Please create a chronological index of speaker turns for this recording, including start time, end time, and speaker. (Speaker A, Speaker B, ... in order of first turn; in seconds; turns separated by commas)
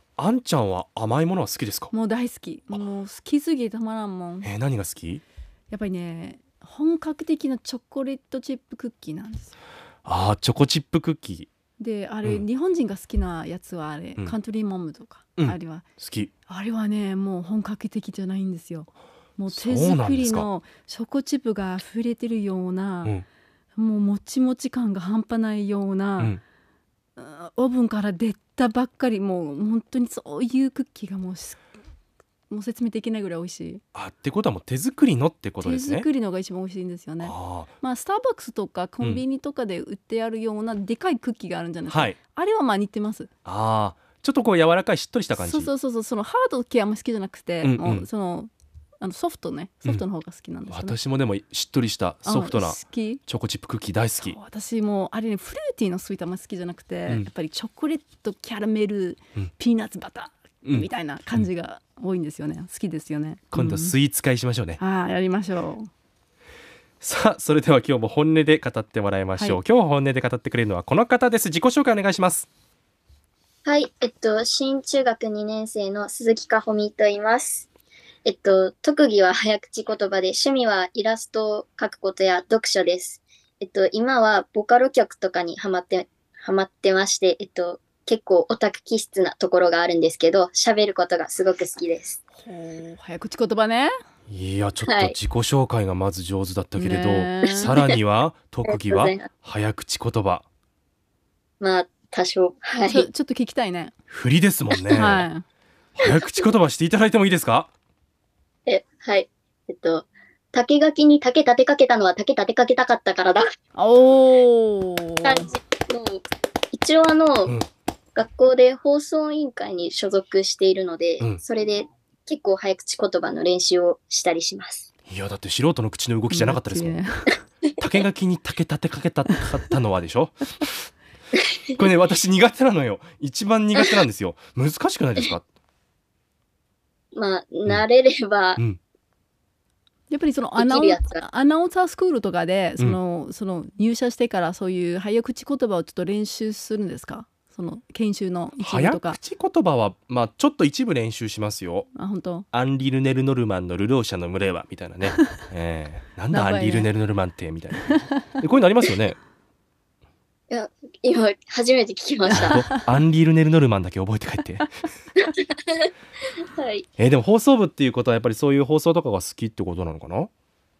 Speaker A: 0.2-1.9, Speaker B: 1.9-4.5, Speaker A: 4.4-5.2, Speaker B: 5.7-9.5, Speaker A: 10.0-11.5, Speaker B: 11.8-15.8, Speaker A: 15.4-16.3, Speaker B: 16.5-23.1, Speaker A: 19.5-20.5, Speaker B: 23.8-26.4, Speaker B: 27.2-31.6, Speaker B: 32.5-33.8, Speaker A: 33.9-36.1, Speaker B: 35.6-43.3, Speaker A: 37.2-37.7, Speaker A: 41.9-42.2, Speaker A: 43.5-45.7, Speaker B: 45.3-51.0, Speaker A: 47.6-48.1, Speaker A: 50.7-54.4, Speaker B: 52.2-53.2, Speaker B: 54.2-64.0, Speaker A: 60.6-61.5, Speaker A: 63.5-64.8, Speaker B: 64.8-65.9, Speaker A: 67.0-72.5, Speaker C: 73.7-77.7, Speaker C: 78.2-92.2, Speaker B: 92.4-93.9, Speaker A: 94.3-100.5, Speaker C: 94.8-95.2, Speaker B: 96.8-97.7, Speaker C: 97.5-97.9, Speaker C: 98.7-99.3, Speaker C: 101.6-103.1, Speaker B: 102.8-103.9, Speaker A: 104.1-105.3, Speaker C: 104.7-105.0, Speaker B: 105.0-105.4, Speaker A: 106.0-107.7, Speaker C: 106.1-106.5, Speaker C: 108.7-113.4, Speaker B: 113.7-115.5, Speaker C: 115.2-117.6, Speaker C: 118.1-124.9, Speaker A: 125.1-127.0, Speaker B: 126.3-127.4, Speaker A: 127.8-130.8, Speaker A: 131.7-135.4, Speaker C: 137.1-138.6, Speaker B: 140.1-149.2, Speaker C: 140.6-141.2, Speaker A: 148.6-151.9, Speaker B: 151.9-152.4, Speaker A: 152.5-159.2, Speaker B: 156.3-156.9, Speaker C: 160.5-162.6, Speaker A: 162.3-164.7, Speaker B: 162.3-162.9, Speaker C: 165.2-165.9, Speaker C: 166.6-166.8, Speaker A: 167.0-170.3